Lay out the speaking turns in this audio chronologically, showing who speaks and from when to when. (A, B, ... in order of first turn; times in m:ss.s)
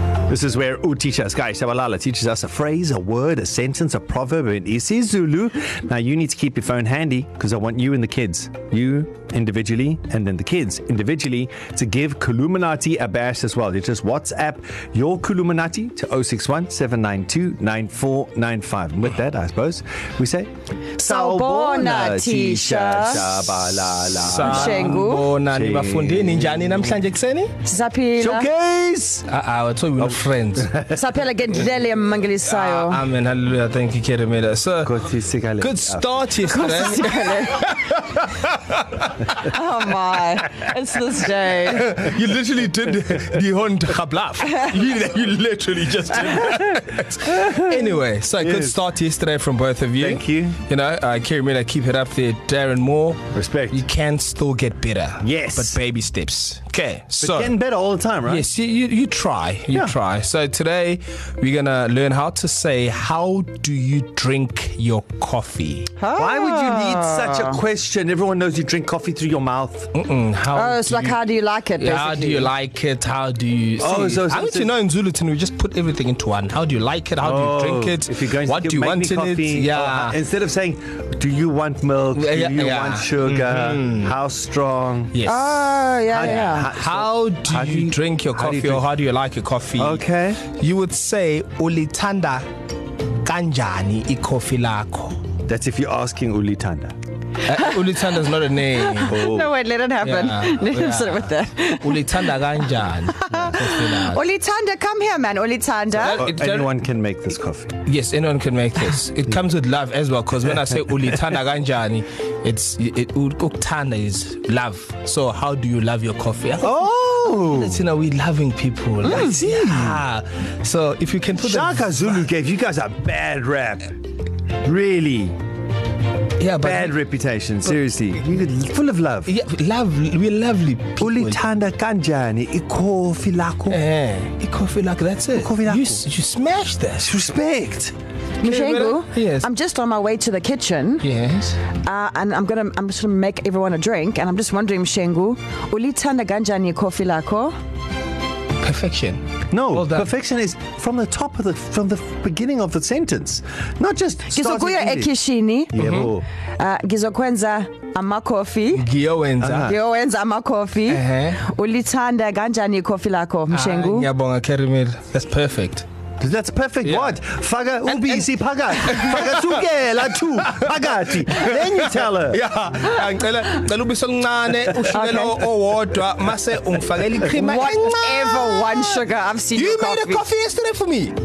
0:00.3-0:27.0 A
0:21.0-0:23.3 B
0:24.1-0:27.5 C
0:24.3-0:25.3 B
0:27.6-0:28.5 B
0:28.2-0:29.2 A
0:29.3-0:30.7 C
0:30.0-0:31.0 A
0:30.9-0:33.0 B
0:32.4-0:34.9 C
0:34.8-0:36.3 A
0:35.6-0:38.4 C
0:36.5-0:37.7 B
0:39.3-0:41.9 B
0:41.7-0:57.5 C
0:48.4-0:48.8 A
0:50.0-0:50.6 A
0:53.3-0:53.8 A
0:55.2-0:55.8 A
0:57.2-0:58.5 A
0:58.2-1:06.0 C
1:06.0-1:07.6 B
1:06.2-1:09.9 A
1:09.9-1:11.2 C
1:10.5-1:12.5 B
1:11.8-1:20.1 C
1:13.8-1:14.7 A
1:17.2-1:25.2 A
1:22.1-1:24.1 C
1:25.1-1:25.6 C
1:25.2-1:26.7 B
1:26.1-1:28.8 A
1:26.2-1:32.4 C
1:29.8-1:30.4 A
1:33.2-1:35.2 C
1:35.4-1:36.9 A
1:37.4-1:39.2 C
1:38.8-1:42.0 B
1:39.1-1:39.5 A
1:40.0-1:44.2 C
1:43.1-1:46.2 B
1:46.0-1:46.7 C
1:46.0-1:47.7 A
1:47.8-2:02.2 C
1:56.6-1:57.8 A
1:59.0-2:00.0 A
2:01.4-2:03.9 A
2:04.6-2:05.4 A
2:06.4-2:06.9 C
2:06.6-2:09.3 A
2:09.3-2:11.4 C
2:11.0-2:13.8 A
2:13.7-2:17.1 C
2:15.3-2:16.0 A
2:17.0-2:17.9 A
2:18.4-2:21.0 B
2:18.4-2:19.5 C
2:21.0-2:21.6 C
2:21.8-2:27.5 B
2:28.6-2:30.1 C
2:29.5-2:35.1 A
2:34.3-2:35.7 B
2:35.7-2:36.2 A
2:35.8-2:36.1 C
2:36.6-2:38.8 B
2:38.7-2:39.7 C
2:39.4-2:39.8 A
2:39.6-2:44.1 B
2:40.9-2:41.4 C
2:43.5-2:45.8 C
2:46.2-2:52.4 A
2:46.8-2:47.2 C
2:47.9-2:59.0 C
2:54.9-2:55.4 B
2:57.3-3:00.3 B
2:59.5-3:01.2 C